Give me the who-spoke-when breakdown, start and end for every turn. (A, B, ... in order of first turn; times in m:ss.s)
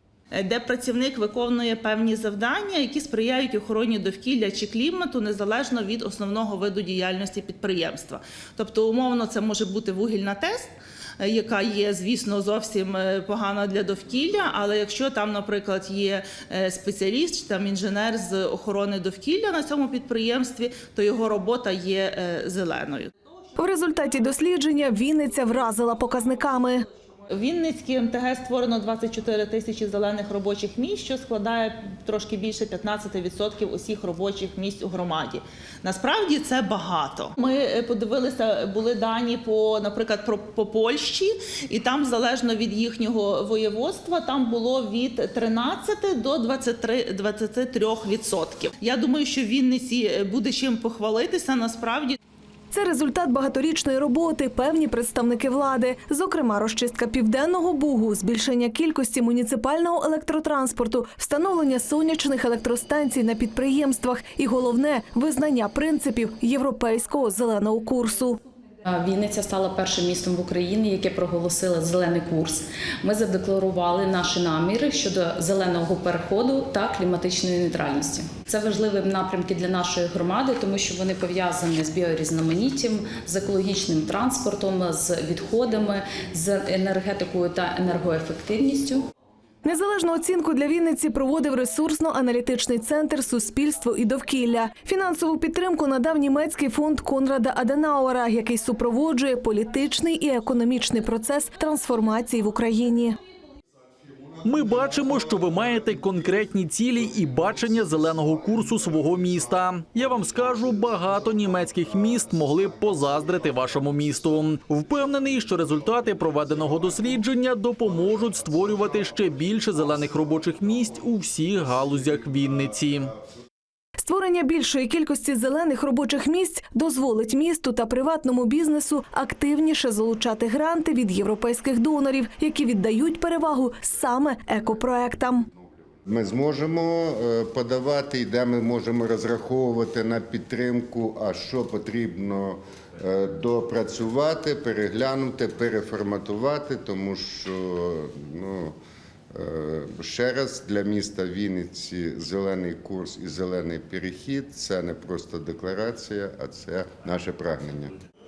0:00.3-0:23.1 A
0:23.6-0:26.9 B
0:27.3-0:52.2 A
0:52.7-1:08.4 B
1:08.8-1:29.0 C
1:29.6-1:43.2 B
1:44.4-2:03.1 D
2:04.0-2:15.5 B
2:16.0-2:28.8 E
2:29.3-2:37.9 E